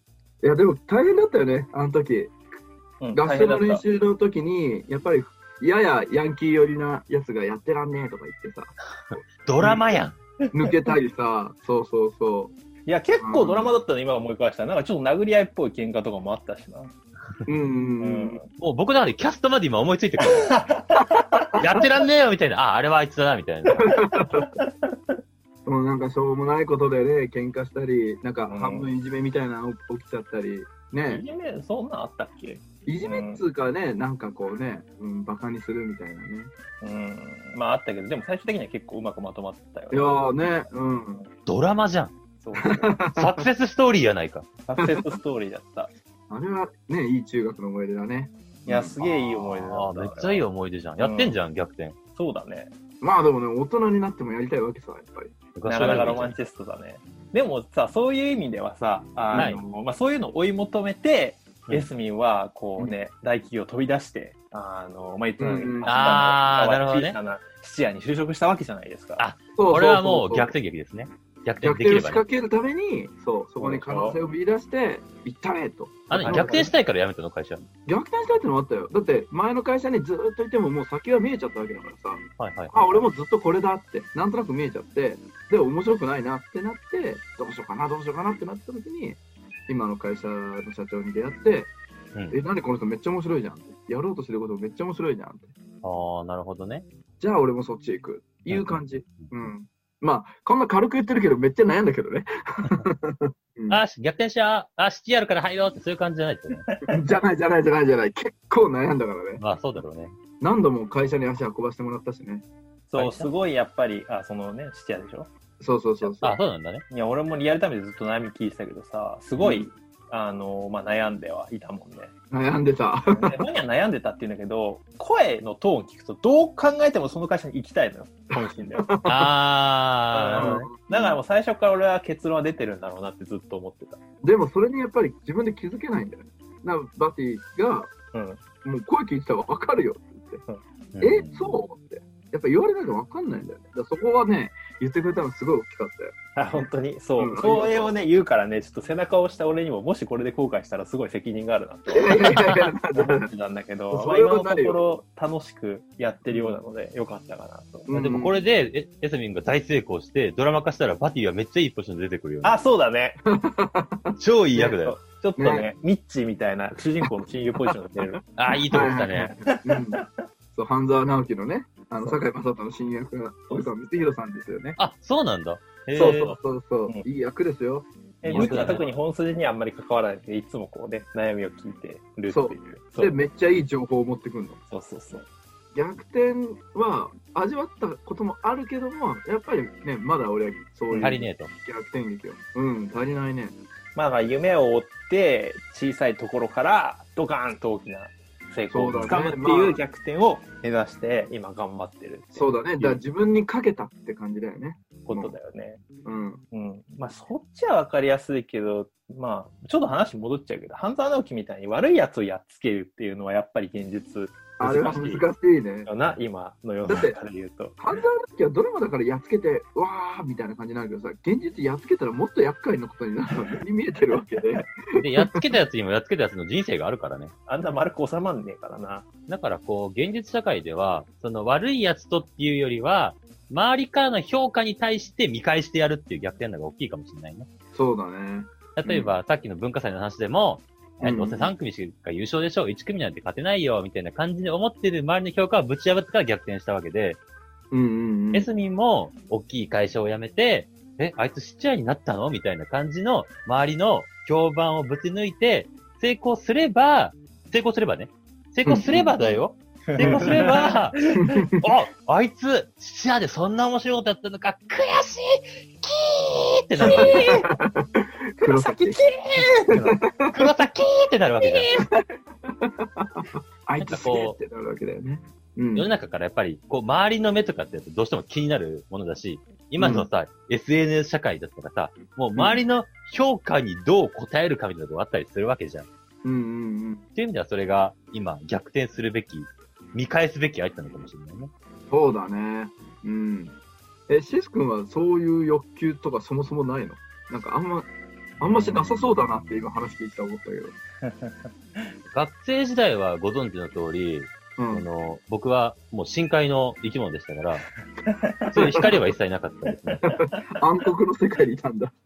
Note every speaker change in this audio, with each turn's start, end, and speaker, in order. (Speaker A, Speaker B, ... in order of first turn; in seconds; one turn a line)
Speaker A: 0.4-2.4
Speaker B: 3.0-3.8
Speaker A: 3.1-9.8
Speaker C: 9.4-10.2
Speaker A: 10.5-12.5
Speaker B: 12.8-16.9
Speaker A: 13.2-13.7
Speaker A: 17.4-18.4
Speaker B: 18.0-18.5
Speaker C: 18.6-20.5
Speaker B: 20.4-21.0
Speaker A: 20.9-21.7
Speaker C: 21.6-24.0
Speaker A: 23.8-24.5
Speaker B: 24.4-25.1
Speaker A: 25.6-31.2
Speaker B: 28.5-28.9
Speaker B: 31.1-33.4
Speaker A: 32.9-36.5
Speaker B: 36.8-40.3
Speaker A: 39.9-41.3
Speaker C: 41.5-42.1
Speaker B: 42.4-43.0
Speaker A: 42.6-43.4
Speaker C: 43.1-44.5
Speaker B: 44.6-45.9
Speaker A: 44.8-45.1
Speaker A: 46.3-49.1
Speaker B: 48.6-50.4
Speaker C: 49.6-52.0
Speaker B: 51.0-51.3
Speaker B: 52.1-52.7
Speaker A: 53.0-55.3
Speaker C: 55.5-56.3
Speaker B: 55.7-69.2
Speaker A: 59.3-59.6
Speaker C: 59.3-59.6
Speaker A: 65.4-66.0
Speaker C: 65.8-67.2
Speaker C: 69.2-72.2
Speaker A: 69.5-70.5
Speaker A: 71.6-76.7
Speaker B: 73.6-74.2
Speaker C: 76.1-77.6
Speaker B: 76.1-76.7
Speaker A: 77.8-91.7
Speaker C: 82.4-83.0
Speaker A: 92.3-95.5
Speaker C: 95.8-96.8
Speaker A: 97.2-103.8
Speaker C: 98.5-99.3
Speaker C: 103.7-106.7
Speaker B: 106.7-107.0
Speaker A: 106.9-109.4
Speaker C: 109.4-110.1
Speaker A: 110.4-112.4
Speaker B: 112.9-115.3
Speaker C: 112.9-113.3
Speaker A: 115.6-116.4
Speaker C: 116.2-116.8
Speaker B: 116.9-122.1
Speaker C: 119.4-119.6
Speaker A: 122.3-123.4
Speaker B: 123.1-128.9
Speaker A: 128.3-129.3
Speaker C: 129.1-130.7
Speaker B: 130.1-134.0
Speaker A: 130.3-131.2
Speaker A: 134.2-137.9
Speaker B: 138.1-138.4
Speaker A: 138.6-140.4
Speaker C: 140.9-141.6
Speaker A: 141.0-146.7
Speaker B: 146.3-157.9
Speaker A: 147.2-147.9
Speaker A: 151.9-153.3
Speaker A: 153.9-154.8
Speaker A: 157.9-158.4
Speaker C: 157.9-162.6
Speaker B: 162.4-163.2
Speaker A: 163.3-164.7
Speaker C: 164.2-165.0
Speaker B: 164.6-168.2
Speaker A: 165.4-165.7
Speaker A: 167.7-168.1
Speaker C: 168.3-169.3
Speaker A: 168.7-174.8
Speaker B: 169.1-170.0
Speaker C: 174.8-176.3
Speaker A: 175.9-178.9
Speaker B: 178.2-183.1
Speaker C: 178.2-178.8
Speaker A: 182.3-184.6
Speaker B: 184.7-185.3
Speaker A: 185.7-193.6
Speaker B: 190.9-191.2
Speaker C: 191.0-191.5
Speaker B: 193.9-203.0
Speaker A: 198.7-199.8
Speaker A: 202.3-205.3
Speaker B: 205.1-205.8
Speaker A: 206.0-206.4
Speaker B: 206.5-215.3
Speaker A: 214.6-215.9
Speaker B: 215.8-217.8
Speaker A: 216.8-217.2
Speaker A: 217.8-225.4
Speaker C: 224.9-227.3
Speaker B: 227.5-229.1
Speaker C: 229.3-237.5
Speaker A: 237.7-239.1
Speaker C: 238.8-247.2
Speaker A: 241.0-241.5
Speaker A: 247.7-248.5
Speaker C: 248.3-261.0
Speaker A: 258.6-259.2
Speaker B: 259.9-261.4
Speaker A: 260.0-260.4
Speaker A: 261.1-261.6
Speaker C: 261.6-267.3
Speaker B: 266.8-267.5
Speaker A: 266.8-269.0
Speaker B: 268.4-269.9
Speaker A: 269.7-270.3
Speaker C: 269.8-271.8
Speaker A: 271.7-275.9
Speaker C: 273.8-274.4
Speaker C: 275.7-285.9
Speaker A: 279.8-280.1
Speaker A: 282.3-282.6
Speaker A: 286.2-287.0
Speaker C: 287.1-291.5
Speaker A: 291.9-293.6
Speaker A: 294.1-300.7
Speaker B: 301.0-301.8
Speaker C: 302.1-307.6
Speaker A: 304.6-304.8
Speaker B: 308.1-308.8
Speaker C: 308.5-310.1
Speaker A: 308.5-308.9
Speaker A: 310.0-311.9